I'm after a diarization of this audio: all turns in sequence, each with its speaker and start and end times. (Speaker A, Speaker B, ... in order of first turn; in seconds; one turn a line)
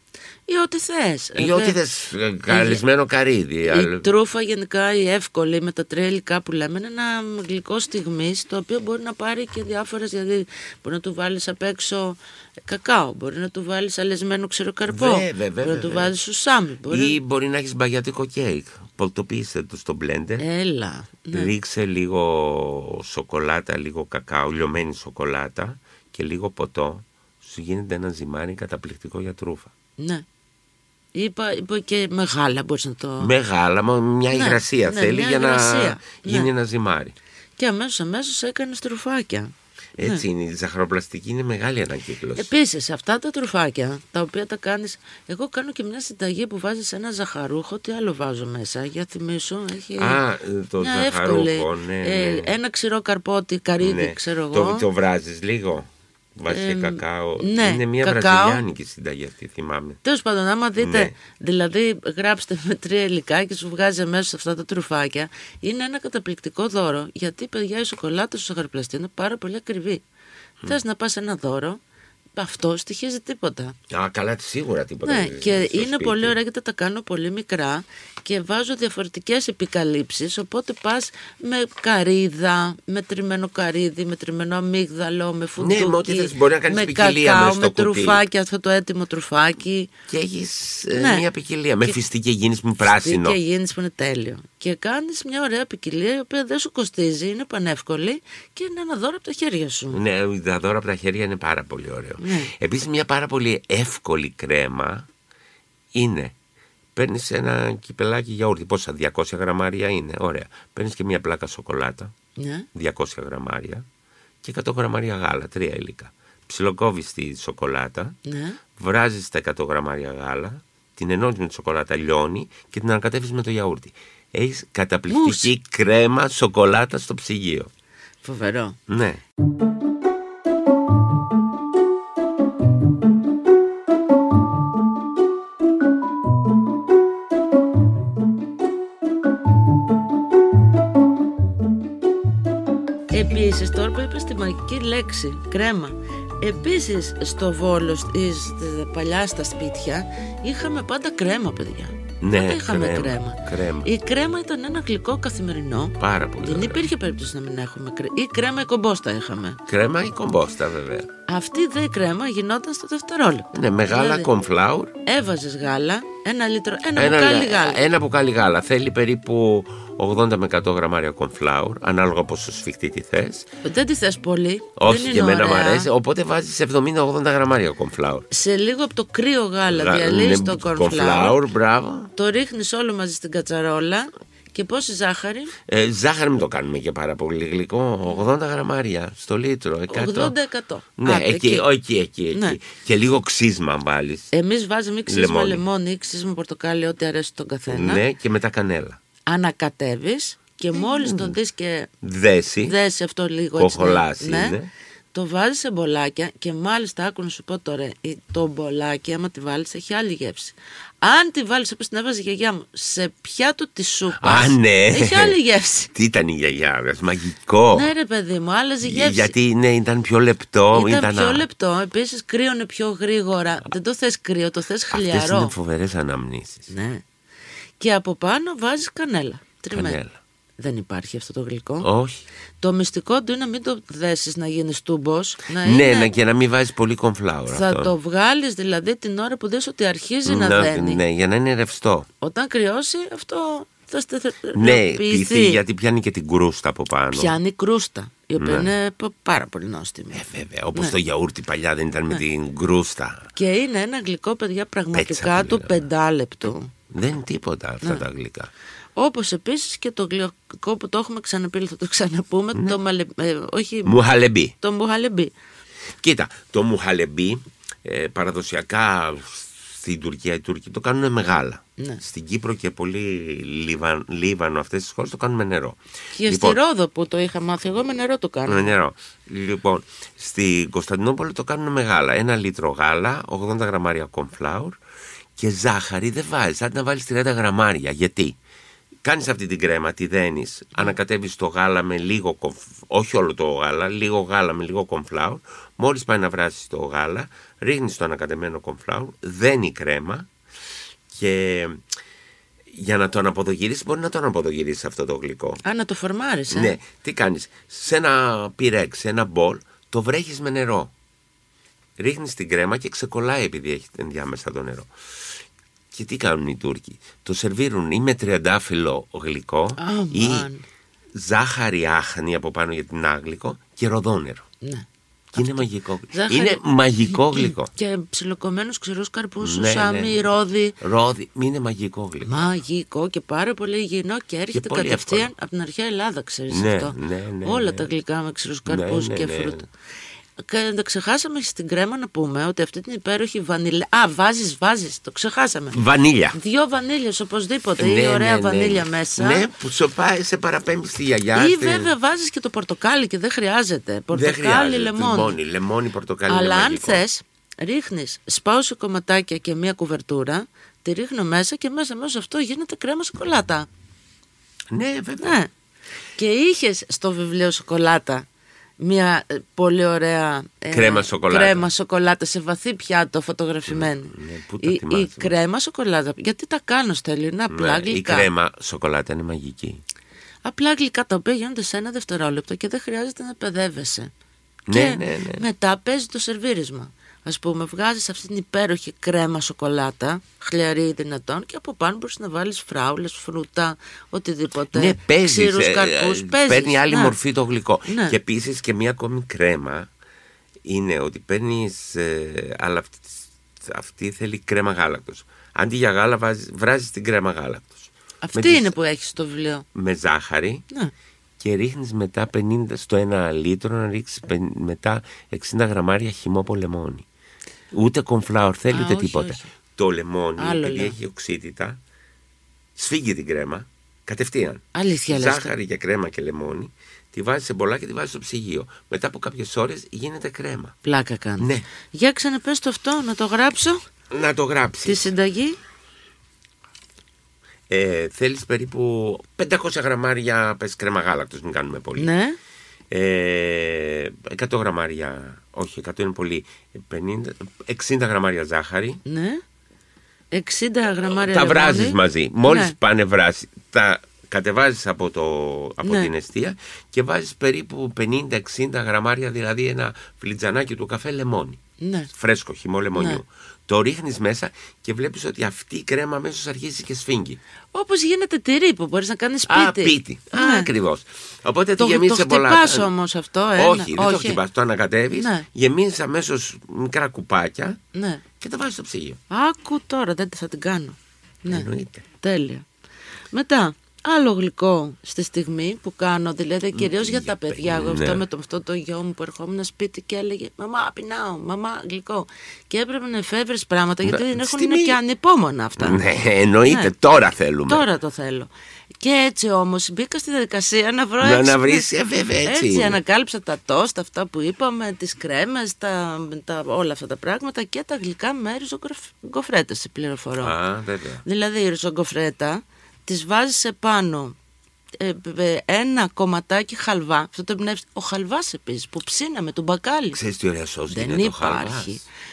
Speaker A: 0.5-1.8
Speaker B: 1.3-4.1
Speaker A: 2.5-2.8
Speaker A: 3.6-17.2
Speaker B: 14.9-16.1
Speaker B: 16.9-20.4
Speaker A: 20.4-21.5
Speaker B: 21.3-29.7
Speaker A: 30.0-30.2
Speaker A: 31.1-33.3
Speaker B: 33.2-37.1
Speaker A: 34.3-36.5
Speaker A: 37.6-40.2
Speaker B: 40.0-42.5
Speaker A: 42.4-50.2
Speaker B: 50.0-52.5
Speaker A: 50.8-54.9
Speaker B: 53.8-60.0
Speaker A: 56.5-58.6
Speaker A: 60.0-70.0
Speaker B: 60.8-61.1
Speaker A: 70.7-71.8
Speaker A: 72.3-73.8
Speaker B: 73.9-76.4
Speaker A: 75.0-89.9
Speaker B: 85.6-88.2
Speaker B: 90.1-93.4
Speaker A: 90.9-91.2
Speaker A: 92.8-100.0
Speaker B: 99.9-105.1
Speaker A: 102.2-102.5
Speaker B: 105.9-106.3
Speaker B: 107.0-112.1
Speaker A: 112.4-112.7
Speaker B: 112.7-113.8
Speaker B: 114.4-118.2
Speaker A: 118.2-118.6
Speaker B: 118.8-127.7
Speaker A: 125.1-125.5
Speaker A: 128.2-128.8
Speaker B: 128.9-129.2
Speaker A: 143.1-159.6
Speaker B: 152.2-153.9
Speaker B: 156.0-156.9
Speaker B: 159.7-161.1
Speaker A: 161.3-164.3
Speaker B: 163.5-164.9
Speaker A: 165.1-167.8
Speaker B: 166.9-173.5
Speaker A: 173.6-175.9
Speaker B: 174.8-178.3
Speaker A: 178.3-181.4
Speaker B: 179.6-182.1
Speaker A: 182.2-185.5
Speaker B: 185.7-190.3
Speaker A: 189.9-191.6
Speaker B: 191.0-194.3
Speaker A: 192.3-192.6
Speaker A: 194.3-198.0
Speaker B: 195.1-195.6
Speaker B: 197.7-199.0
Speaker A: 199.3-201.9
Speaker B: 200.7-201.3
Speaker B: 202.0-202.8
Speaker A: 202.6-204.6
Speaker B: 203.5-204.7
Speaker A: 205.1-215.9
Speaker B: 214.2-215.4
Speaker B: 215.9-217.9
Speaker A: 217.7-219.3
Speaker B: 218.8-221.4
Speaker A: 220.7-225.5
Speaker B: 224.9-226.7
Speaker A: 226.7-227.0
Speaker A: 227.8-230.0
Speaker B: 229.7-230.2
Speaker A: 230.6-231.9
Speaker B: 231.8-232.2
Speaker A: 232.6-236.1
Speaker B: 235.6-237.9
Speaker A: 237.5-241.0
Speaker B: 240.2-242.1
Speaker A: 242.2-245.6
Speaker B: 244.5-247.4
Speaker A: 247.1-250.2
Speaker B: 248.4-248.7
Speaker B: 250.1-253.3
Speaker A: 253.3-256.7
Speaker B: 254.9-255.8
Speaker B: 256.9-258.5
Speaker A: 259.0-264.0
Speaker B: 263.8-264.5
Speaker A: 264.6-265.3
Speaker B: 266.0-276.6
Speaker A: 276.1-278.7
Speaker B: 278.4-284.8
Speaker B: 285.4-288.4
Speaker B: 289.0-300.3
Speaker B: 301.1-301.8
Speaker B: 302.7-305.6
Speaker A: 305.6-306.7
Speaker B: 306.5-310.9
Speaker B: 312.0-314.9
Speaker B: 315.9-320.5
Speaker A: 319.8-320.6
Speaker B: 321.1-324.4
Speaker A: 324.6-330.8
Speaker B: 325.3-327.7
Speaker B: 329.4-332.5
Speaker A: 332.2-339.7
Speaker B: 334.5-335.3
Speaker B: 336.5-337.9
Speaker B: 338.6-339.6
Speaker A: 340.4-345.8
Speaker B: 345.7-346.4
Speaker A: 346.3-349.5
Speaker B: 347.8-351.9
Speaker A: 351.3-355.4
Speaker B: 354.1-357.0
Speaker A: 356.3-363.7
Speaker B: 364.7-365.4
Speaker A: 365.2-365.5
Speaker A: 366.2-368.2
Speaker A: 368.8-378.3
Speaker B: 370.7-371.7
Speaker B: 373.7-375.4
Speaker B: 377.5-379.8
Speaker A: 380.4-384.1
Speaker B: 384.7-385.4
Speaker A: 384.7-397.2
Speaker B: 394.7-399.9
Speaker A: 397.9-398.1
Speaker B: 400.6-408.7
Speaker A: 408.2-409.6
Speaker B: 409.7-410.6
Speaker B: 411.4-417.1
Speaker B: 417.7-421.8
Speaker A: 418.7-419.5
Speaker A: 420.4-420.9
Speaker B: 422.8-430.8
Speaker A: 424.7-425.5
Speaker A: 430.8-433.8
Speaker B: 431.4-431.7
Speaker B: 434.1-435.1
Speaker A: 434.8-435.6
Speaker B: 437.7-442.1
Speaker A: 442.0-442.4
Speaker B: 442.9-449.0
Speaker A: 449.0-449.4
Speaker A: 450.3-452.8
Speaker B: 451.0-461.6
Speaker A: 455.8-456.1
Speaker A: 461.8-462.1
Speaker B: 462.1-467.4
Speaker A: 462.9-463.2
Speaker A: 467.7-470.7
Speaker B: 469.5-472.9
Speaker A: 471.8-474.4
Speaker B: 473.6-477.8
Speaker A: 475.1-475.4
Speaker A: 477.9-478.2
Speaker B: 478.4-479.2
Speaker A: 479.3-482.6
Speaker B: 481.5-482.0
Speaker A: 483.3-496.0
Speaker B: 486.7-488.2
Speaker B: 494.0-495.0
Speaker B: 495.8-497.9
Speaker A: 496.6-510.6
Speaker B: 501.2-503.0
Speaker B: 510.4-511.2
Speaker A: 511.2-514.4
Speaker A: 515.0-520.2
Speaker B: 520.1-522.0
Speaker A: 520.9-522.0